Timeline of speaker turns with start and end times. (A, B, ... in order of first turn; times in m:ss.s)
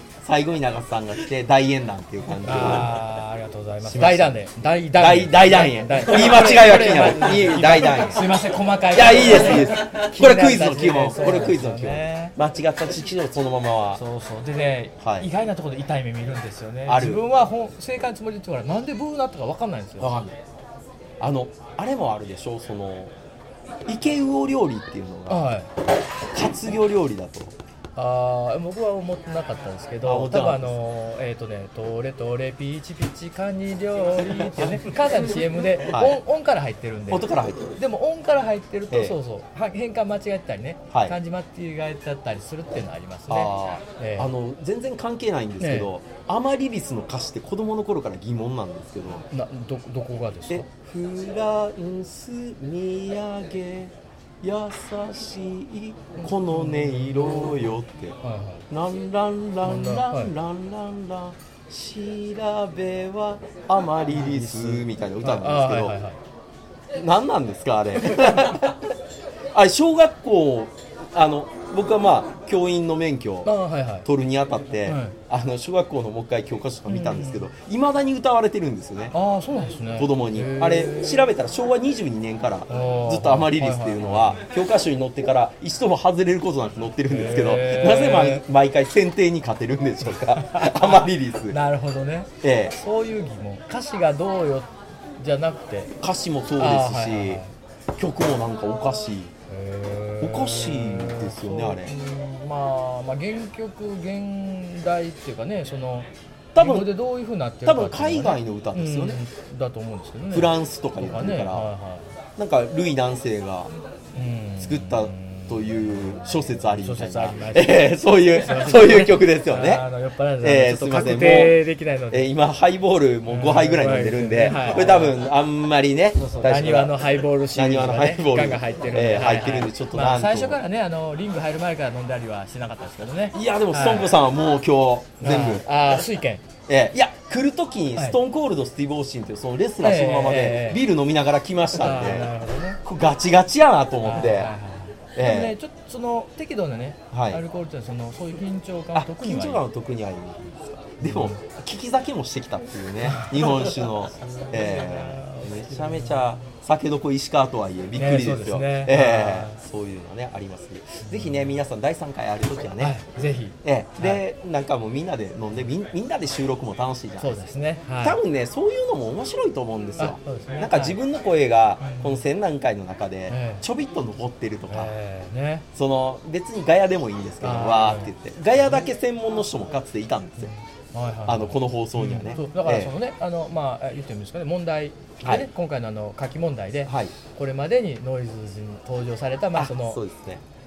0:00.2-0:03.0 A
0:02.4-0:12.3 B
0:03.8-0:04.4 A
0:05.0-0:08.4 A
0:08.9-0:14.0 A
0:14.0-0:20.2 B
0:15.0-0:15.3 A
0:16.8-0:17.2 A
0:20.0-0:20.4 A
0:21.2-0:23.1 A
0:23.9-0:25.6 A
0:25.3-0:25.7 B
0:26.3-0:27.5 A
0:27.9-0:44.3 B
0:30.0-0:30.7 A
0:34.2-0:34.8 A
0:35.8-0:36.2 A
0:37.1-0:37.7 A
0:38.9-0:39.2 A
0:40.9-0:41.2 A
0:43.3-0:49.2 A
0:45.6-0:45.9 B
0:49.3-0:50.6 B
0:50.5-0:58.2 A
0:56.2-0:58.6 B
0:58.7-1:06.0 A
0:59.6-1:00.3 B
1:04.1-1:06.2 B
1:06.9-1:08.9 A
1:09.5-1:13.5 A
1:13.4-1:14.1 B
1:14.0-1:19.2 A
1:14.9-1:15.2 B
1:16.9-1:17.5 B
1:19.1-1:21.3 B
1:20.0-1:31.6 A
1:22.7-1:24.4 B
1:27.0-1:28.4 B
1:30.2-1:35.9 B
1:32.4-1:32.8 A
1:36.0-1:37.4 A
1:36.6-1:37.5 B
1:38.0-1:39.3 A
1:39.5-1:52.1 B
1:40.2-1:41.9 A
1:46.5-1:46.9 A
1:47.6-1:49.2 A
1:50.3-1:51.7 A
1:52.4-1:53.7 A
1:54.1-2:02.3 B
1:54.6-1:59.8 A
2:00.4-2:07.0 A
2:03.3-2:05.2 B
2:06.2-2:14.2 B
2:07.5-2:10.6 A
2:13.3-2:15.6 A
2:15.2-2:16.4 B
2:16.7-2:22.3 A
2:19.8-2:20.8 B
2:21.7-2:22.8 B
2:22.8-2:24.5 A
2:24.0-2:29.6 B
2:25.1-2:25.5 A
2:27.1-2:27.4 A
2:28.9-2:43.0 A
2:31.0-2:31.4 B
2:33.0-2:36.4 B
2:37.9-2:39.6 B
2:41.0-2:41.6 B
2:42.8-2:44.2 B
2:43.6-2:47.5 A
2:47.2-2:48.2 B
2:48.0-2:54.9 A
2:50.0-2:51.0 B
2:51.8-2:52.2 B
2:53.3-2:53.6 B
2:54.7-2:55.6 B
2:55.7-3:00.5 A
2:57.4-2:58.1 B
3:00.4-3:10.0 B
3:01.2-3:02.9 A
3:05.2-3:05.5 A
3:06.8-3:07.1 A
3:09.5-3:10.4 A